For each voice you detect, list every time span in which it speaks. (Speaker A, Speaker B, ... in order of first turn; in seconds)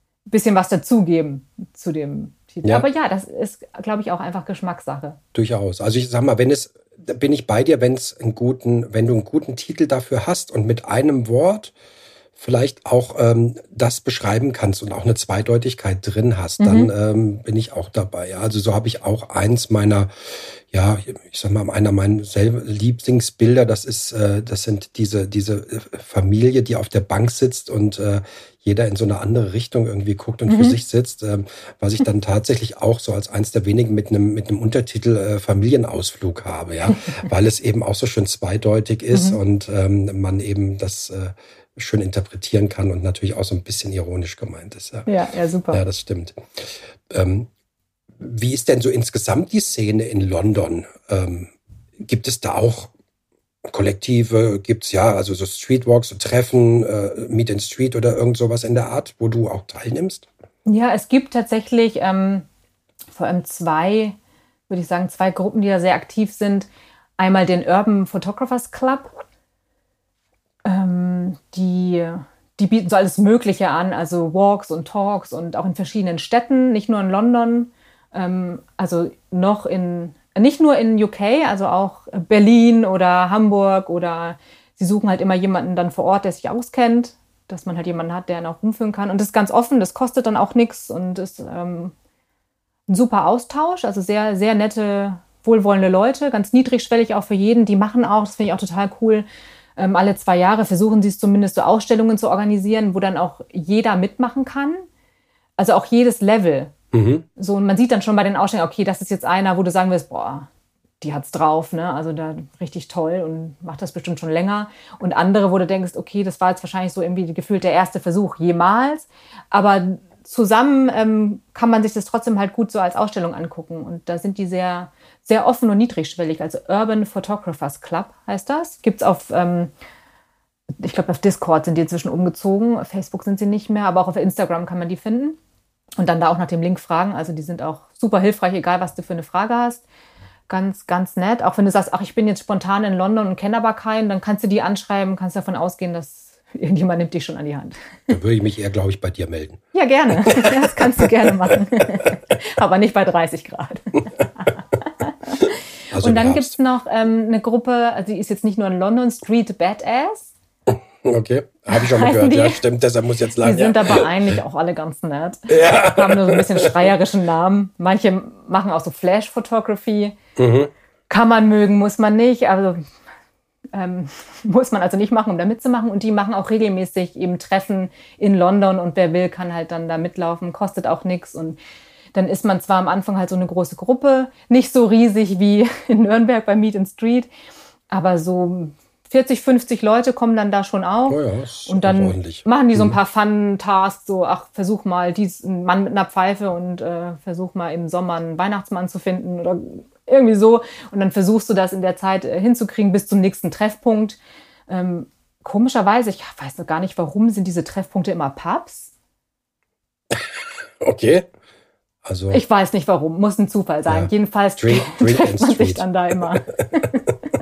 Speaker A: 0.3-5.2, 16.6-16.9, 30.5-30.8, 36.9-37.2, 39.1-39.4, 45.1-45.8, 60.7-62.5, 63.1-64.2, 64.7-69.1, 70.6-91.9, 92.9-99.3, 99.8-104.8, 105.6-106.7, 107.4-110.5, 111.0-129.7, 130.8-135.4, 136.0-139.8, 140.5-148.2, 149.7-160.3, 161.7-162.6, 163.4-170.2, 171.1-172.8, 173.7-181.6, 182.1-187.3, 187.9-208.9, 212.3-217.0
Speaker B: 5.3-11.7, 12.4-45.1, 45.7-47.5, 48.2-51.5, 52.0-52.9, 53.7-60.3, 106.9-107.2, 148.1-149.6, 150.2-151.0, 155.9-156.5, 160.7-164.1, 165.5-166.9, 170.4-170.7, 191.1-193.0, 210.1-211.3, 212.1-212.4, 213.9-217.1